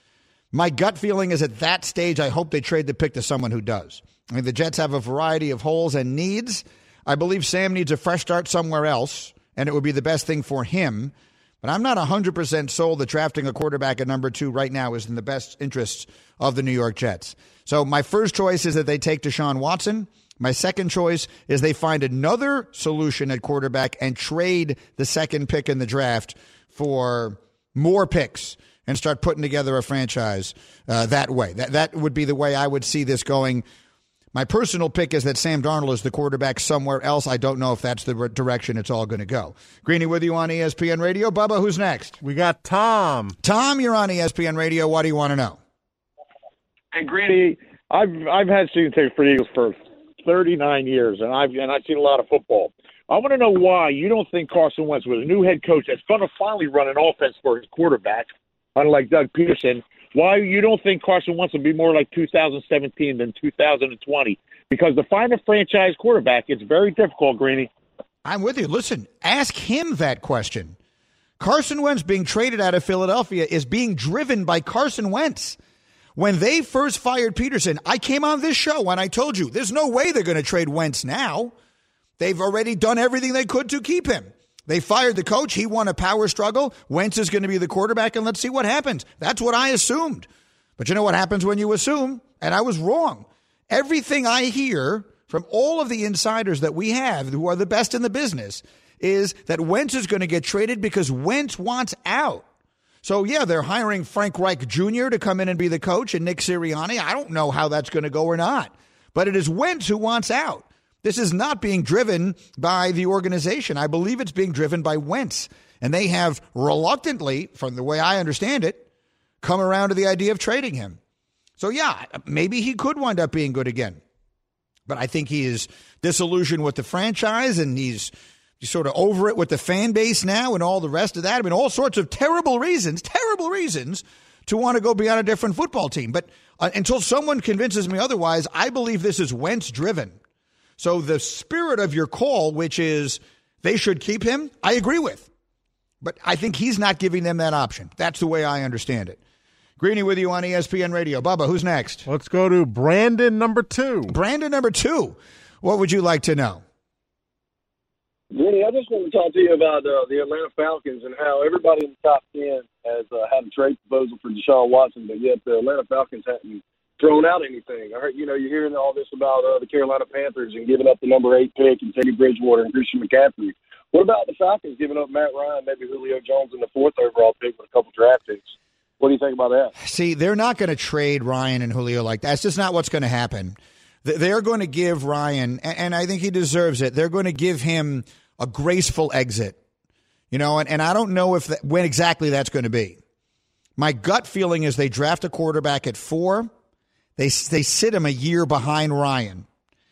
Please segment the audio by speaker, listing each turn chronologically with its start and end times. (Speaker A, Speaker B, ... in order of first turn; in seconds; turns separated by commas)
Speaker A: 0.5-33.6, Speaker A: 34.3-42.2, Speaker B: 42.2-43.4, Speaker A: 43.4-45.6, Speaker C: 46.9-67.7, Speaker A: 68.2-70.8, Speaker A: 71.4-75.6, Speaker A: 76.2-81.5, Speaker A: 82.2-102.5, Speaker A: 103.0-118.8, Speaker A: 119.4-121.0, Speaker A: 121.6-124.0, Speaker A: 124.9-140.2, Speaker A: 140.8-145.3, Speaker A: 146.0-149.2, Speaker A: 149.8-152.1, Speaker B: 152.1-154.1, Speaker A: 154.1-156.6, Speaker D: 158.3-179.7, Speaker A: 179.8-189.6, Speaker A: 190.3-193.0, Speaker A: 193.8-196.5, Speaker A: 197.2-199.5